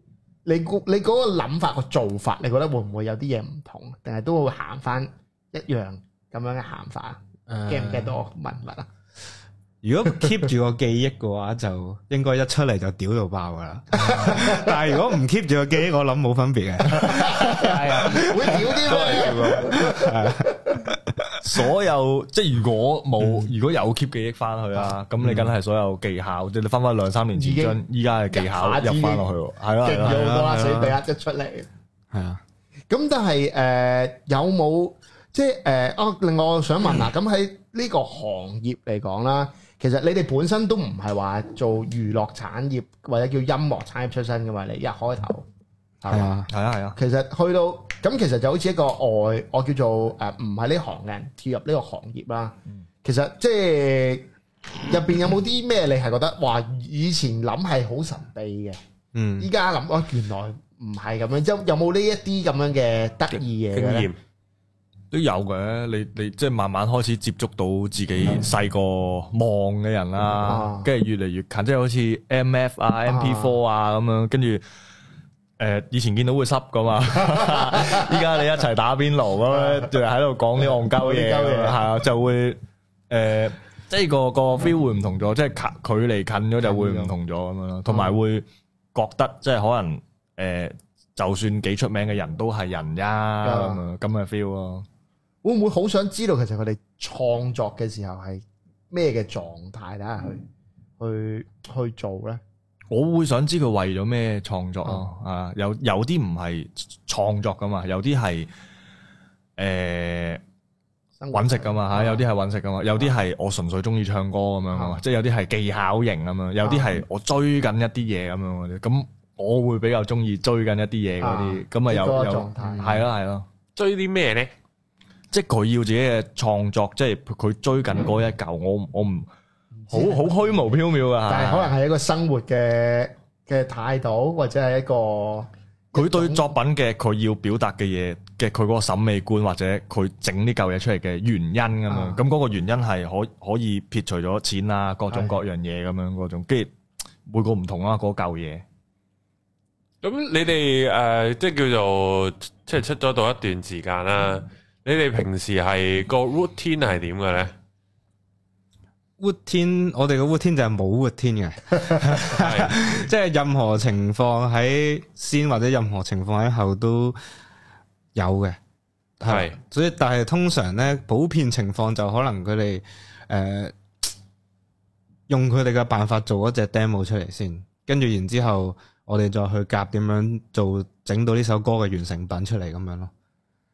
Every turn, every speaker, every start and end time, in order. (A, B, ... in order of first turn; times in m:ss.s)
0:00.4-0:08.9 A
0:07.5-0:08.2 B
0:09.8-0:18.8 B
0:13.9-0:14.7 A
0:16.9-0:20.8 A
0:17.5-0:19.8 C
0:19.6-0:21.3 B
0:21.4-0:30.3 C
0:23.2-0:23.5 B
0:25.2-0:25.5 B
0:27.3-0:27.8 A
0:28.3-0:29.2 A
0:29.8-0:31.7 A
0:30.0-0:31.0 B
0:32.1-0:32.4 B
0:32.9-0:45.4 A
0:46.0-0:46.3 A
0:46.1-0:46.5 B
0:46.5-0:47.0 C
0:46.9-0:54.2 A
0:54.8-0:58.8 A
0:59.1-0:59.5 B
0:59.4-1:04.1 A
1:03.7-1:04.2 D
1:05.1-1:14.6 C
1:10.4-1:10.9 A
1:13.1-1:13.5 A
1:15.6-1:34.8 C
1:17.4-1:18.1 A
1:19.5-1:19.9 A
1:20.9-1:21.8 A
1:26.6-1:27.1 A
1:27.9-1:28.2 A
1:33.4-1:33.8 A
1:35.4-1:40.4 A
1:41.0-1:42.4 A
1:42.9-1:48.5 C
1:49.6-1:50.4 C
1:51.2-1:52.2 A
1:51.3-2:03.5 C
1:54.7-1:55.0 A
1:56.6-1:57.0 A
2:01.2-2:03.0 A
2:03.8-2:04.5 D
2:05.3-2:09.3 C
2:09.9-2:10.3 A
2:09.9-2:11.7 C
2:11.3-2:16.4 A
2:15.9-2:26.7 C
2:21.9-2:22.2 A
2:27.3-2:28.6 C
2:30.0-2:37.5 D
2:39.2-2:47.2 B
2:42.3-2:42.8 D
2:48.1-2:48.6 B
2:49.2-2:53.8 B
2:49.2-2:49.6 D
2:55.3-3:03.1 B